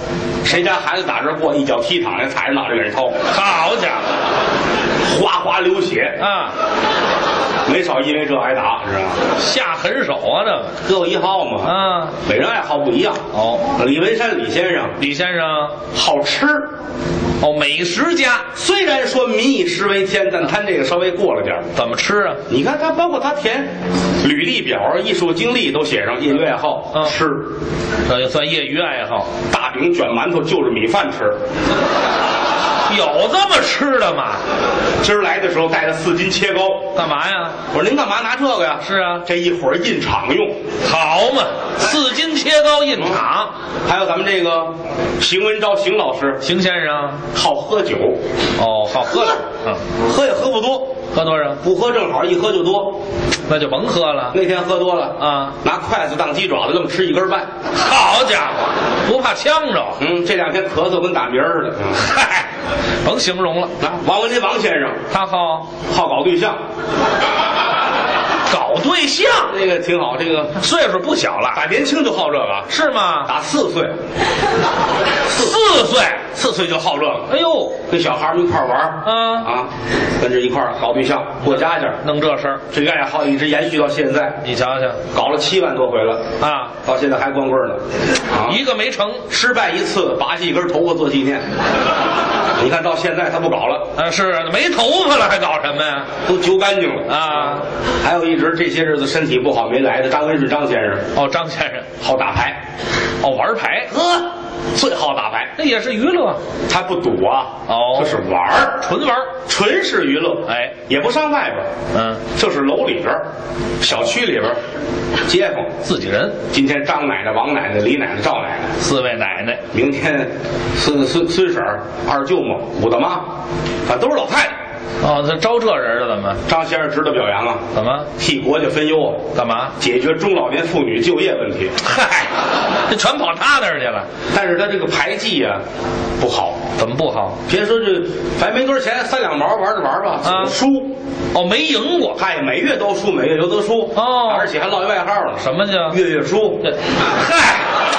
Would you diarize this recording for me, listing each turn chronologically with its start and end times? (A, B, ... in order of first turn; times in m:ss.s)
0:00.4-0:03.2 A
0:03.3-0:04.0 B
0:05.0-0:06.2 A
0:06.2-0:06.5 B
0:07.6-0:09.2 A
0:09.4-0:10.8 B
0:10.8-0:11.7 A
0:11.6-0:12.2 B
0:12.2-0:13.2 A
0:13.3-0:13.7 B
0:13.7-0:15.0 A
0:15.0-0:15.8 B
0:15.9-0:16.7 A
0:17.4-0:18.5 B
0:18.6-0:21.7 A
0:21.7-0:22.4 B
0:22.5-0:27.5 A
0:28.1-0:29.3 B
0:29.5-0:31.4 A
0:32.9-0:34.4 B
0:35.0-0:36.9 A
0:36.9-0:37.6 B
0:37.7-0:40.5 A
0:38.8-0:39.2 B
0:40.8-0:43.5 B
0:43.8-0:46.4 A
0:46.4-0:47.2 B
0:47.3-0:48.2 A
0:48.6-0:49.8 B
0:50.0-0:51.0 A
0:51.1-0:51.6 B
0:51.6-0:53.0 A
0:53.5-0:54.4 B
0:54.3-0:57.5 A
0:55.2-0:55.6 B
0:57.7-1:00.0 B
1:00.0-1:02.0 A
1:02.0-1:02.4 B
1:03.0-1:03.7 B
1:03.8-1:05.0 A
1:05.1-1:05.7 B
1:05.8-1:06.6 A
1:08.5-1:09.5 B
1:09.5-1:10.6 A
1:10.6-1:11.6 B
1:11.5-1:12.7 A
1:12.7-1:13.3 B
1:13.2-1:13.9 A
1:15.3-1:16.2 B
1:16.3-1:17.3 A
1:17.3-1:17.8 B
1:17.9-1:22.0 A
1:19.0-1:19.5 B
1:21.4-1:22.6 B
1:22.7-1:24.4 A
1:24.4-1:25.0 B
1:25.1-1:26.3 A
1:26.4-1:26.7 B
1:26.8-1:27.8 A
1:28.3-1:28.6 A
1:28.4-1:29.2 B
1:29.3-1:31.4 A
1:32.6-1:33.9 A
1:34.0-1:36.1 B
1:36.2-1:37.1 A
1:37.1-1:37.6 B
1:38.0-1:41.0 A
1:41.1-1:41.9 B
1:42.0-1:42.6 A
1:43.2-1:43.9 B
1:43.9-1:45.5 A
1:45.6-1:46.4 B
1:46.7-1:48.8 A
1:47.7-1:48.2 B
1:48.8-1:49.3 B
1:49.4-1:51.7 A
1:50.5-1:50.8 B
1:51.9-1:52.2 B
1:52.3-1:53.2 A
1:53.8-1:54.6 A
1:55.2-1:55.7 A
1:55.8-1:56.4 B
1:56.5-1:58.7 A
1:58.8-1:59.6 B
1:59.7-2:03.2 A
2:03.9-2:04.5 A
2:05.0-2:06.4 B
2:06.5-2:07.6 A
2:07.7-2:08.1 B
2:08.2-2:09.2 A
2:09.3-2:09.7 B
2:09.8-2:11.7 A
2:11.8-2:14.1 B
2:14.3-2:15.6 A
2:16.2-2:16.6 A
2:16.8-2:17.4 B
2:17.5-2:20.9 A
2:20.2-2:20.5 B
2:21.3-2:22.2 B
2:22.2-2:26.6 A
2:24.0-2:24.5 B
2:25.4-2:26.0 B
2:26.6-2:27.7 B